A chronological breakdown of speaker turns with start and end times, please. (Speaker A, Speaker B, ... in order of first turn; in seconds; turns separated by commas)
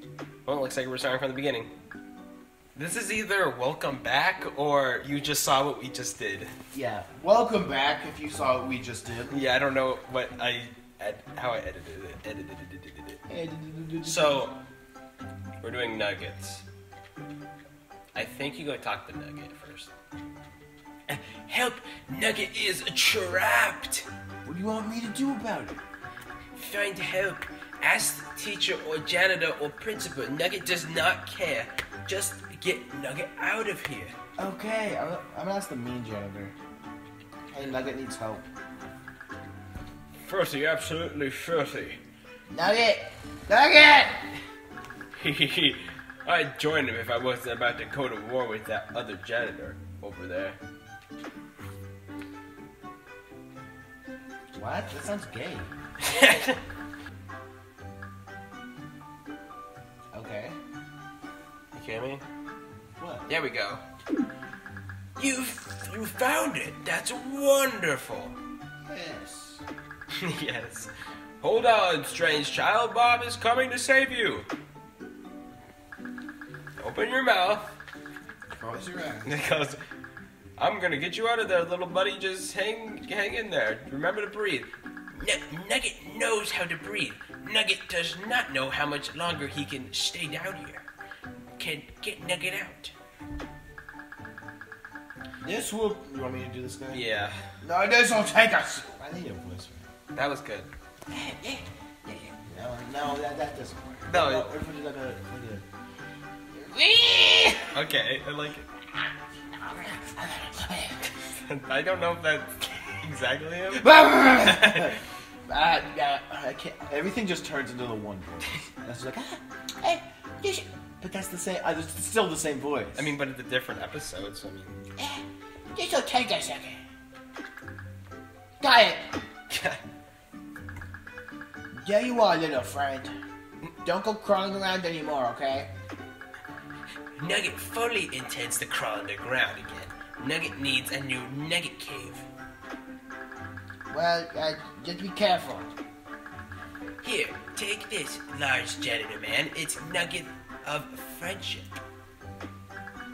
Speaker A: 0.5-1.7, Speaker A: 2.8-6.5, Speaker B: 6.7-9.4, Speaker A: 9.3-13.2, Speaker B: 13.3-14.5, Speaker A: 14.0-14.6, Speaker A: 15.6-16.6, Speaker A: 18.1-19.9, Speaker A: 21.1-24.1, Speaker B: 24.4-25.8, Speaker A: 26.6-34.1, Speaker B: 34.4-36.5, Speaker B: 37.5-38.5, Speaker A: 40.2-42.0, Speaker B: 42.5-44.3, Speaker A: 45.1-50.6, Speaker B: 54.5-55.7, Speaker A: 56.0-56.6, Speaker B: 60.1-60.6, Speaker A: 61.7-62.2, Speaker B: 63.0-63.3, Speaker A: 63.3-63.8, Speaker A: 65.2-68.4, Speaker B: 68.8-69.6, Speaker A: 70.1-74.5, Speaker A: 76.8-77.8, Speaker B: 78.5-79.4, Speaker A: 79.2-79.8, Speaker A: 80.6-90.8, Speaker A: 91.6-92.9, Speaker B: 95.4-97.0, Speaker A: 96.9-97.5, Speaker B: 97.6-99.9, Speaker A: 100.1-100.7, Speaker B: 101.1-101.7, Speaker B: 102.3-105.7, Speaker A: 104.0-104.5, Speaker B: 106.5-107.7, Speaker A: 107.7-108.7, Speaker B: 109.5-111.1, Speaker A: 111.2-114.9, Speaker B: 113.7-123.1, Speaker A: 123.0-124.8, Speaker B: 125.0-126.8, Speaker B: 128.6-129.1, Speaker A: 129.5-129.8, Speaker B: 131.7-133.1, Speaker B: 133.8-135.7, Speaker A: 137.2-142.3, Speaker B: 143.9-145.7, Speaker A: 147.0-151.7